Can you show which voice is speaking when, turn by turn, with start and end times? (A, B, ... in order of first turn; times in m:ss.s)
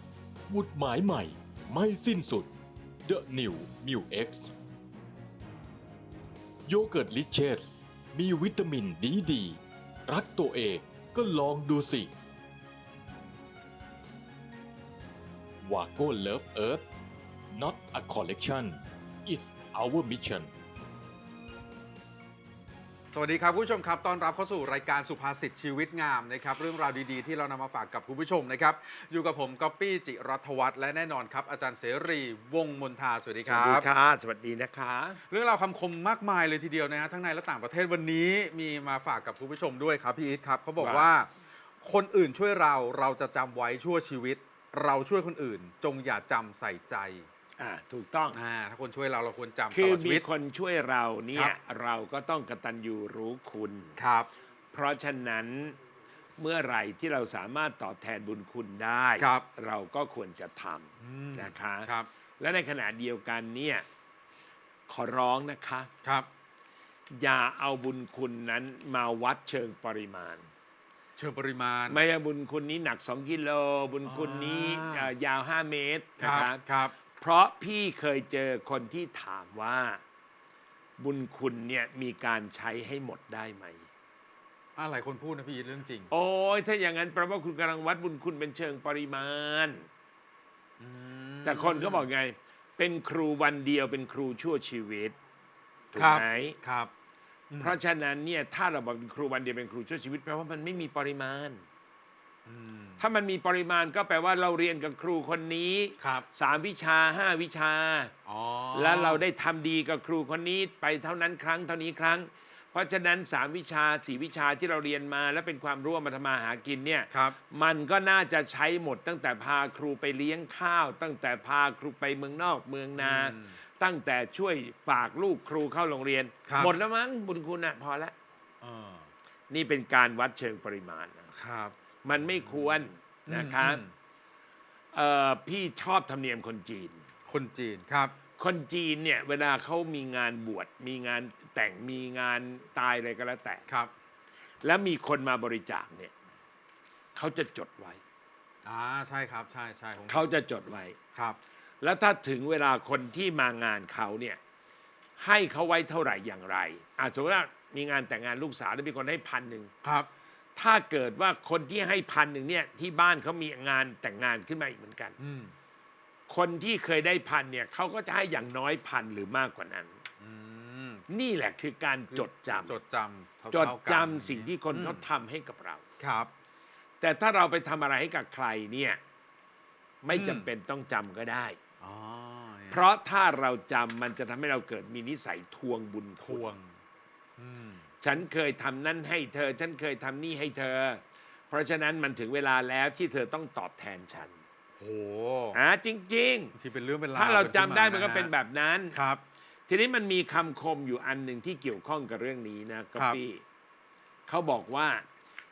0:00.5-0:02.5 A
0:03.0-0:04.5 A
0:06.7-0:12.1 A
0:15.6-0:16.8 A
0:17.5-0:20.5 A
0:23.1-0:33.8 B
0:33.4-0:35.2 C
0:35.3-0:41.3 B
0:40.8-0:41.1 C
0:41.8-0:47.3 B
0:47.6-0:48.4 C
0:48.3-0:50.2 B
0:49.7-0:53.9 C
0:54.0-0:54.3 B
0:54.7-0:55.8 C
0:56.4-1:01.9 C
0:59.2-0:59.4 B
1:01.0-1:02.1 B
1:02.4-1:03.8 C
1:04.9-1:05.9 C
1:07.2-1:10.5 C
1:11.2-1:12.0 B
1:11.9-1:16.6 C
1:14.0-1:15.1 B
1:16.2-1:16.9 B
1:17.2-1:20.0 C
1:21.0-1:23.9 C
1:24.8-1:26.1 B
1:26.1-1:29.9 C
1:30.8-1:32.1 B
1:31.4-1:35.2 C
1:35.9-1:36.6 C
1:36.0-1:36.9 B
1:37.5-1:37.8 B
1:37.6-1:41.6 C
1:42.4-1:43.0 B
1:43.0-1:48.1 C
1:46.0-1:46.2 B
1:48.2-1:49.2 B
1:48.7-2:08.1 C
2:03.0-2:03.6 B
2:06.5-2:06.7 B
2:08.6-2:09.1 B
2:09.5-2:11.3 C
2:11.4-2:13.9 B
2:12.0-2:13.8 C
2:14.9-2:17.0 C
2:17.3-2:18.1 B
2:18.4-2:23.6 C
2:24.6-2:26.1 C
2:27.2-2:28.0 C
2:28.6-2:30.3 B
2:30.1-2:31.0 C
2:31.8-2:34.4 C
2:35.2-2:39.7 C
2:40.6-2:45.2 C
2:45.2-2:45.5 B
2:46.3-2:50.0 C
2:50.2-2:51.0 B
2:51.1-2:52.8 C
2:52.1-2:55.0 B
2:53.5-2:55.8 C
2:56.0-2:56.3 B
2:57.0-2:59.0 C
3:00.0-3:01.6 C
3:00.1-3:00.4 B
3:01.8-3:02.8 B
3:02.7-3:06.5 C
3:06.2-3:06.7 B
3:07.4-3:07.8 B
3:08.0-3:14.4 C
3:14.8-3:15.6 B
3:15.5-3:16.5 C
3:16.6-3:18.3 B
3:17.2-3:18.9 C
3:18.9-3:19.2 B
3:19.7-3:23.4 C
3:24.3-3:25.0 C